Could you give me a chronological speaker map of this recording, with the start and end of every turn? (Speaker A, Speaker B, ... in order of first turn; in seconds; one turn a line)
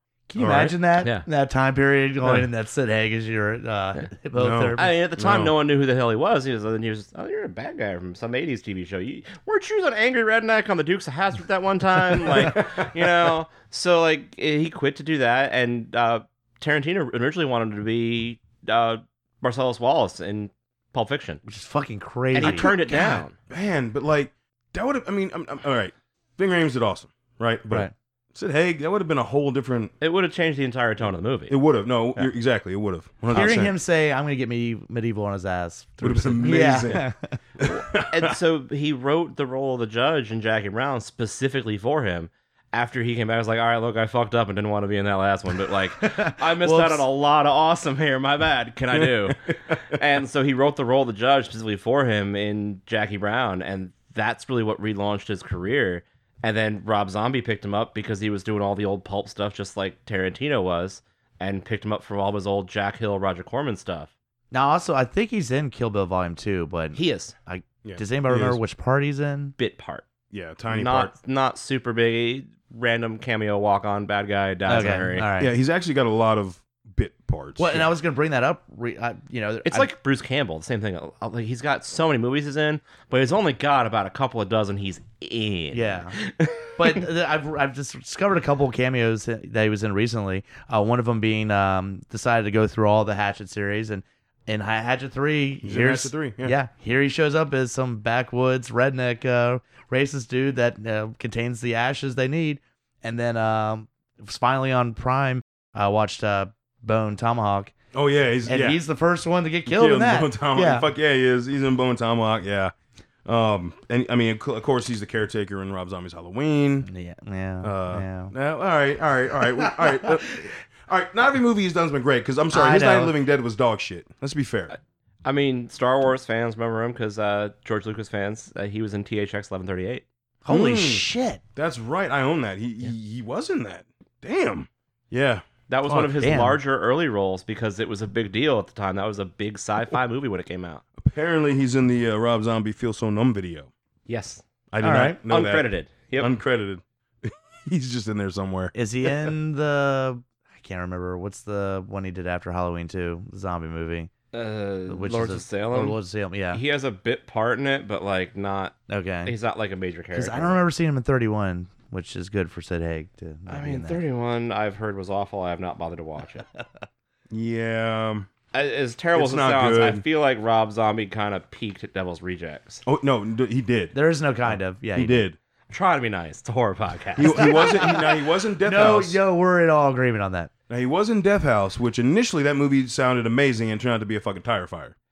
Speaker A: 0.3-4.9
Speaker B: 0.4-0.7
Speaker B: 4.3-5.5
Speaker C: 4.8-21.4
Speaker B: 12.3-12.8
Speaker A: 21.4-22.7
Speaker C: 22.3-23.3
Speaker B: 22.4-29.9
Speaker C: 30.0-31.6
Speaker B: 31.5-33.7
Speaker A: 33.3-37.4
Speaker B: 36.0-37.1
Speaker B: 37.6-38.3
Speaker C: 37.7-64.1
Speaker A: 46.0-47.0
Speaker B: 48.9-49.8
Speaker A: 64.5-69.5
Speaker C: 66.9-67.3
Speaker B: 67.8-68.6
Speaker C: 69.6-70.0
Speaker B: 70.3-71.1
Speaker C: 70.7-75.3
Speaker A: 74.7-75.5
Speaker B: 75.4-77.9
Speaker A: 77.6-79.9
Speaker C: 79.6-87.0
Speaker A: 85.7-86.2
Speaker A: 86.7-107.7
Speaker B: 95.6-96.5
Speaker B: 107.9-108.8
Speaker A: 108.5-110.9
Speaker B: 109.7-112.7
Speaker B: 113.2-116.9
Speaker A: 116.8-118.3
Speaker B: 117.6-124.7
Speaker A: 122.5-123.2
Speaker C: 124.7-130.0
Speaker A: 130.4-131.4
Speaker B: 130.5-135.4
Speaker C: 135.7-140.8
Speaker A: 135.9-136.6
Speaker B: 141.0-143.7
Speaker C: 144.1-144.4
Speaker B: 144.7-149.3
Speaker A: 144.8-145.2
Speaker C: 145.3-146.3
Speaker A: 148.7-154.1
Speaker C: 154.3-156.0
Speaker A: 154.9-156.6
Speaker C: 156.5-160.6
Speaker A: 158.9-159.3
Speaker A: 160.1-164.0
Speaker C: 163.5-166.4
Speaker B: 167.3-168.3
Speaker C: 168.5-172.8
Speaker B: 169.1-170.0
Speaker B: 172.8-173.9
Speaker A: 173.9-175.2
Speaker B: 174.4-175.4
Speaker C: 175.7-177.9
Speaker B: 177.2-179.2
Speaker A: 177.3-178.0
Speaker A: 178.6-180.5
Speaker B: 180.7-184.9